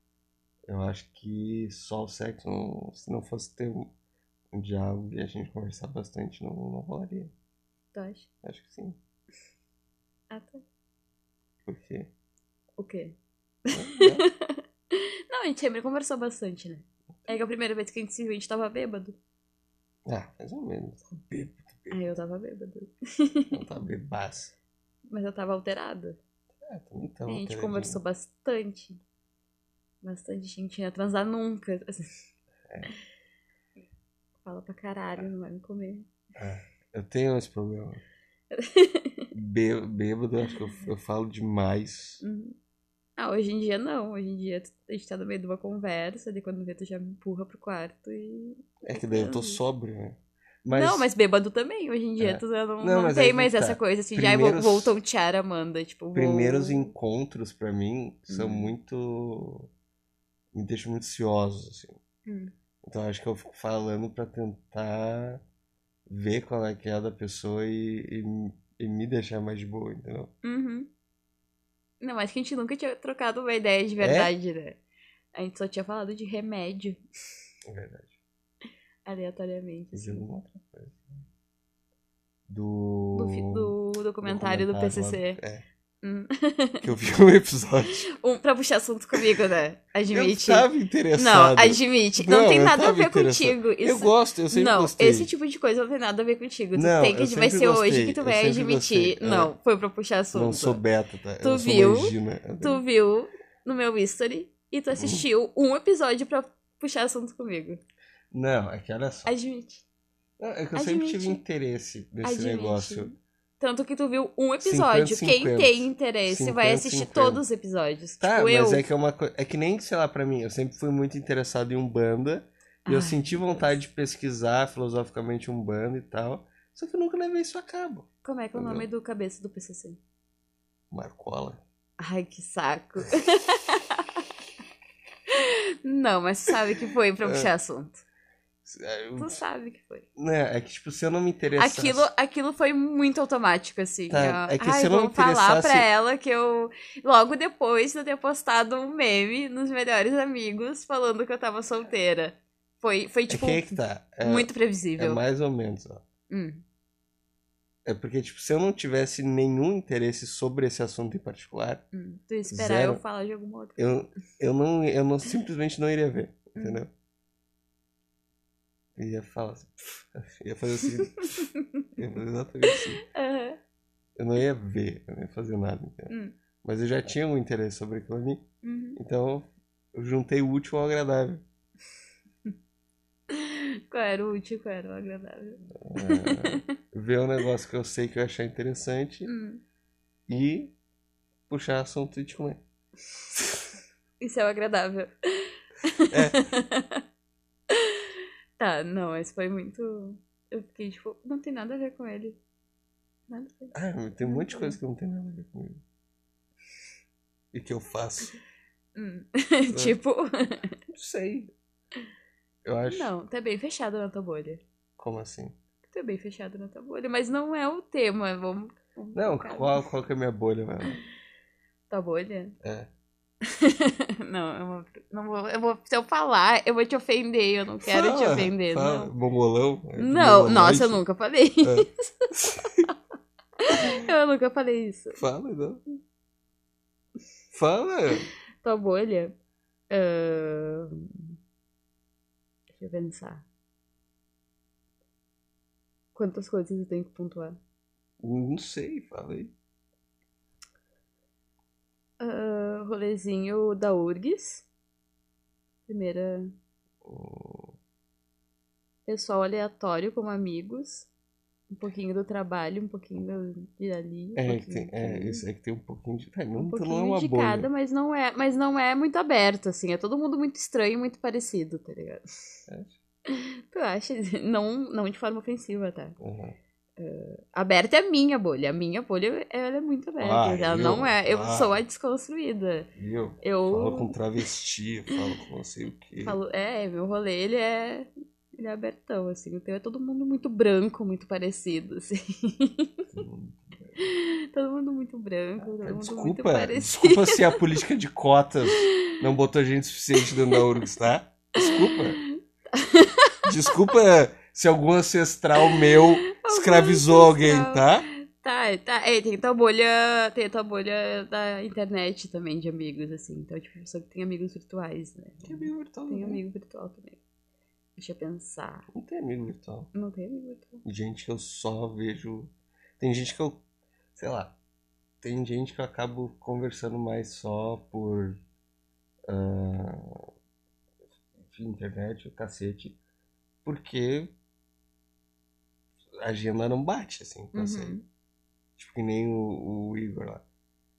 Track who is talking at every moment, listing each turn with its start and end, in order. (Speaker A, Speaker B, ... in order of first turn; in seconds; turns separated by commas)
Speaker A: 0.7-3.9, Speaker A: 4.5-7.3, Speaker B: 7.9-8.3, Speaker A: 8.4-9.0, Speaker B: 10.3-10.6, Speaker A: 11.7-12.1, Speaker B: 12.8-19.2, Speaker A: 13.7-14.2, Speaker A: 20.1-22.1, Speaker B: 21.9-23.6, Speaker A: 23.5-24.5, Speaker B: 25.1-26.2, Speaker A: 26.6-28.0, Speaker B: 27.3-29.0, Speaker B: 30.0-32.2, Speaker B: 34.4-36.1, Speaker A: 36.3-38.0, Speaker B: 38.5-39.3, Speaker A: 39.3-42.2, Speaker B: 42.2-42.5, Speaker B: 43.2-49.6, Speaker A: 48.8-51.1, Speaker B: 50.7-56.9, Speaker A: 52.2-55.0, Speaker A: 56.1-59.7, Speaker B: 58.3-58.7, Speaker A: 60.5-62.0, Speaker B: 62.2-62.5, Speaker A: 62.8-65.4, Speaker A: 66.1-70.3, Speaker B: 70.4-70.9, Speaker B: 72.0-74.8, Speaker A: 74.0-74.3, Speaker B: 75.3-77.0, Speaker A: 77.7-78.2, Speaker B: 79.0-80.3, Speaker A: 79.9-81.2, Speaker A: 82.5-85.7, Speaker B: 83.1-85.4, Speaker B: 86.0-86.8, Speaker A: 86.8-88.0, Speaker B: 88.1-100.8, Speaker A: 90.1-95.3, Speaker A: 96.7-99.5, Speaker A: 100.3-102.8, Speaker B: 101.4-107.8, Speaker A: 104.9-105.2, Speaker A: 108.3-109.3, Speaker B: 109.2-109.8, Speaker A: 110.4-113.1, Speaker B: 110.7-111.4, Speaker B: 112.2-118.8, Speaker A: 114.6-117.4, Speaker A: 118.2-128.9, Speaker B: 122.8-123.8, Speaker B: 128.2-130.0, Speaker A: 130.9-131.6, Speaker B: 132.0-134.3, Speaker B: 135.3-138.0, Speaker A: 137.2-137.5, Speaker A: 138.6-139.4, Speaker B: 139.2-140.1, Speaker A: 140.2-142.1, Speaker B: 141.6-153.6, Speaker A: 144.1-145.9, Speaker A: 153.3-156.0, Speaker B: 154.2-155.2, Speaker B: 156.3-156.6, Speaker A: 157.8-161.8, Speaker B: 161.9-163.8, Speaker A: 162.5-163.0, Speaker A: 163.8-166.9, Speaker B: 166.6-166.8, Speaker A: 168.9-173.0, Speaker B: 171.2-171.9, Speaker B: 172.7-173.6, Speaker A: 174.2-181.4, Speaker B: 176.1-176.3, Speaker B: 178.6-179.0, Speaker B: 183.3-186.7, Speaker A: 185.7-189.3, Speaker B: 189.2-189.6, Speaker A: 190.3-190.7, Speaker A: 191.5-192.6, Speaker B: 194.2-197.0, Speaker A: 196.1-196.5, Speaker B: 197.7-198.0, Speaker B: 198.6-202.4, Speaker B: 203.3-204.8, Speaker A: 203.7-205.8, Speaker A: 207.5-208.4, Speaker B: 208.9-210.7, Speaker A: 209.7-209.9, Speaker A: 210.9-211.5, Speaker A: 212.6-213.1, Speaker B: 212.9-214.6, Speaker A: 215.0-215.5, Speaker B: 215.9-219.8, Speaker A: 219.1-221.0, Speaker B: 221.9-222.6, Speaker A: 222.6-222.9, Speaker B: 223.4-229.1, Speaker A: 227.8-231.0, Speaker B: 230.0-232.9, Speaker A: 231.6-232.9, Speaker B: 233.6-235.2, Speaker A: 235.1-235.8, Speaker A: 237.5-238.3, Speaker B: 238.6-239.3, Speaker B: 239.9-241.3, Speaker B: 242.8-243.4, Speaker B: 246.1-247.6, Speaker A: 248.2-249.5, Speaker B: 252.2-254.7, Speaker B: 255.9-256.5, Speaker A: 257.0-257.8, Speaker B: 259.1-261.1, Speaker B: 261.7-265.4, Speaker A: 264.4-267.7, Speaker B: 266.6-272.2, Speaker A: 272.7-273.0, Speaker B: 273.3-276.2, Speaker A: 276.2-276.6, Speaker B: 277.0-282.9, Speaker A: 280.2-281.8, Speaker A: 282.9-286.4, Speaker B: 283.4-284.2, Speaker B: 286.2-293.1, Speaker A: 293.1-294.0, Speaker B: 294.0-297.6, Speaker A: 295.6-302.2, Speaker B: 298.7-299.2, Speaker B: 300.2-300.6, Speaker B: 301.6-303.7, Speaker A: 303.4-308.1, Speaker B: 305.6-317.2, Speaker A: 315.4-316.4, Speaker B: 317.9-318.9, Speaker A: 318.9-319.9, Speaker B: 319.9-320.8, Speaker A: 320.8-323.6, Speaker A: 324.1-324.6, Speaker A: 325.2-328.4, Speaker A: 329.3-330.3, Speaker A: 331.4-333.0, Speaker A: 333.6-334.3, Speaker A: 336.2-337.9, Speaker B: 337.5-338.0, Speaker A: 338.8-340.4